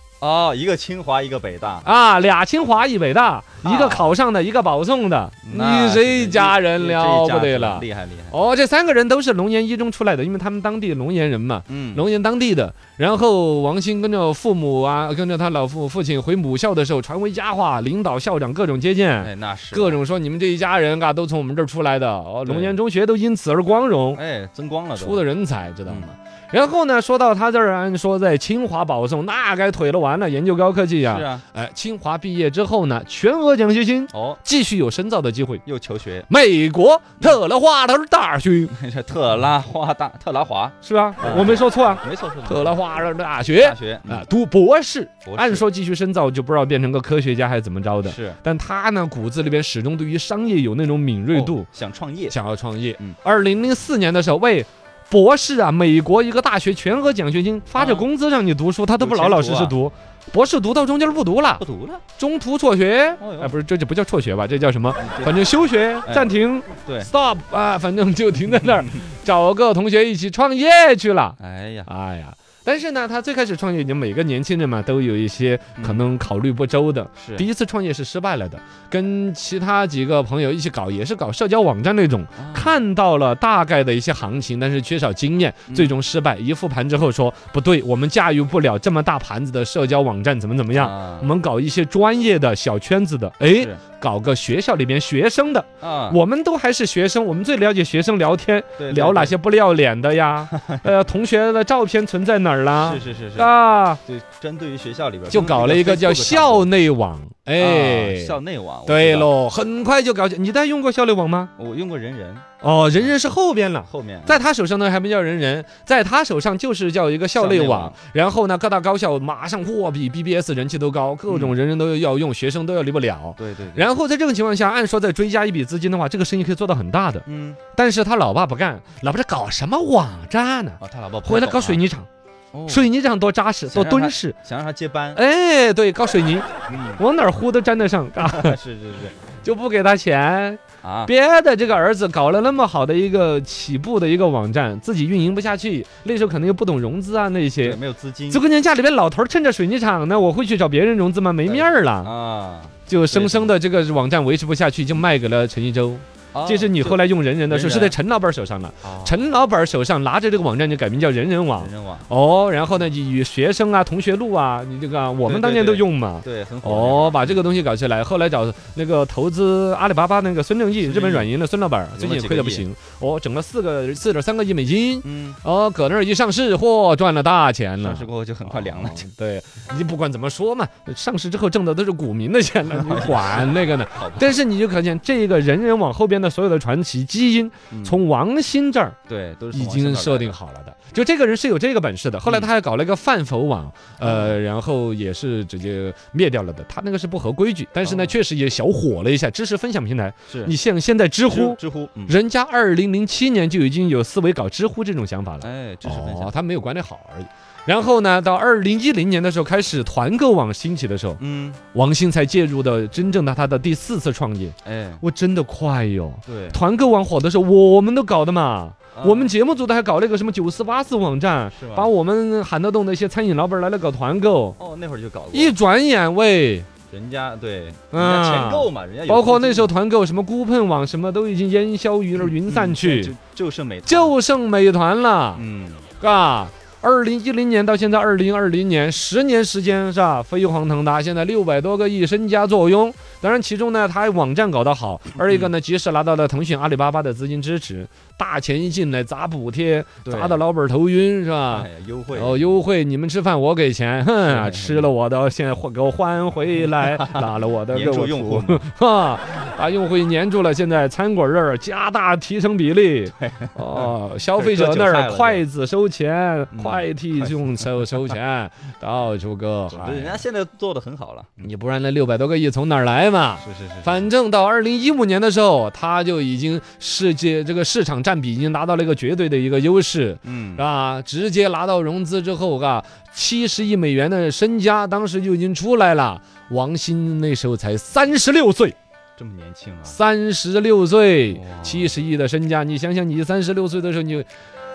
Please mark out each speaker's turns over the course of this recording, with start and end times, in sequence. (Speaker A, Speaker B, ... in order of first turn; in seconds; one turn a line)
Speaker A: 0.2-1.9
Speaker B: 1.9-24.2
Speaker A: 3.6-4.1
Speaker A: 5.4-8.4
Speaker A: 11.7-12.1
Speaker A: 19.2-20.0
Speaker A: 22.4-22.8
Speaker A: 24.1-25.2
Speaker B: 25.0-35.6
Speaker A: 25.9-26.1
Speaker A: 31.1-31.4
Speaker A: 34.1-34.4
Speaker A: 35.6-36.3
Speaker B: 36.3-38.7
Speaker A: 38.7-42.8
Speaker B: 40.8-51.7
Speaker A: 43.5-44.3
Speaker A: 45.2-45.7
Speaker A: 48.0-48.4
Speaker A: 51.3-52.4
Speaker B: 52.3-61.6
Speaker A: 57.8-58.1
Speaker A: 59.0-59.8
Speaker A: 61.6-62.0
Speaker B: 62.2-104.0
Speaker A: 63.2-63.5
Speaker A: 65.0-65.4
Speaker A: 66.0-67.1
Speaker A: 71.4-71.9
Speaker A: 75.8-76.0
Speaker A: 77.2-77.5
Speaker A: 82.4-82.8
Speaker A: 85.7-86.0
Speaker A: 90.7-91.3
Speaker A: 93.5-93.8
Speaker A: 95.8-96.2
Speaker A: 98.8-99.4
Speaker A: 100.5-100.8
Speaker A: 102.8-103.5
Speaker A: 104.0-106.7
Speaker B: 105.3-111.5
Speaker A: 107.6-109.3
Speaker A: 111.6-112.5
Speaker B: 112.6-132.1
Speaker A: 113.9-114.4
Speaker A: 117.3-118.0
Speaker A: 121.3-121.6
Speaker A: 123.4-123.9
Speaker A: 127.3-127.6
Speaker A: 130.8-131.8
Speaker A: 132.5-132.9
Speaker B: 132.7-134.4
Speaker A: 133.7-135.2
Speaker B: 135.2-138.6
Speaker A: 136.7-137.0
Speaker A: 138.2-139.2
Speaker B: 139.4-147.8
Speaker A: 140.8-141.1
Speaker A: 147.6-148.4
Speaker B: 148.3-152.1
Speaker A: 151.5-153.6
Speaker B: 152.9-189.0
Speaker A: 156.3-158.0
Speaker A: 158.8-159.2
Speaker A: 161.5-162.1
Speaker A: 165.2-167.4
Speaker A: 170.8-171.3
Speaker A: 172.0-172.7
Speaker A: 175.0-175.4
Speaker A: 177.8-179.1
Speaker A: 182.7-184.4
Speaker A: 187.7-188.0
Speaker A: 189.1-190.4
Speaker B: 189.5-211.2
Speaker A: 192.3-192.5
Speaker A: 194.0-194.4
Speaker A: 197.8-198.2
Speaker A: 200.3-200.6
Speaker A: 201.3-202.2
Speaker A: 205.4-206.3
Speaker A: 211.2-211.6
Speaker B: 211.7-224.6
Speaker A: 214.7-215.0
Speaker A: 216.3-216.6
Speaker A: 218.9-219.3
Speaker A: 221.5-221.9
Speaker A: 224.6-225.6
Speaker B: 225.3-226.7
Speaker A: 226.9-229.7
Speaker B: 227.9-233.1
Speaker A: 232.2-234.2
Speaker B: 233.9-235.4
Speaker A: 235.3-235.9
Speaker B: 236.0-270.2
Speaker A: 245.2-245.5
Speaker A: 250.0-250.4
Speaker A: 251.5-252.6
Speaker A: 254.3-254.9
Speaker A: 256.6-258.7
Speaker A: 263.1-265.5
Speaker A: 266.5-267.4
Speaker A: 269.7-271.5
Speaker B: 271.4-288.8
Speaker A: 273.4-274.1
Speaker A: 280.2-280.6
Speaker A: 289.2-290.0
Speaker B: 289.9-294.3
Speaker A: 291.3-292.0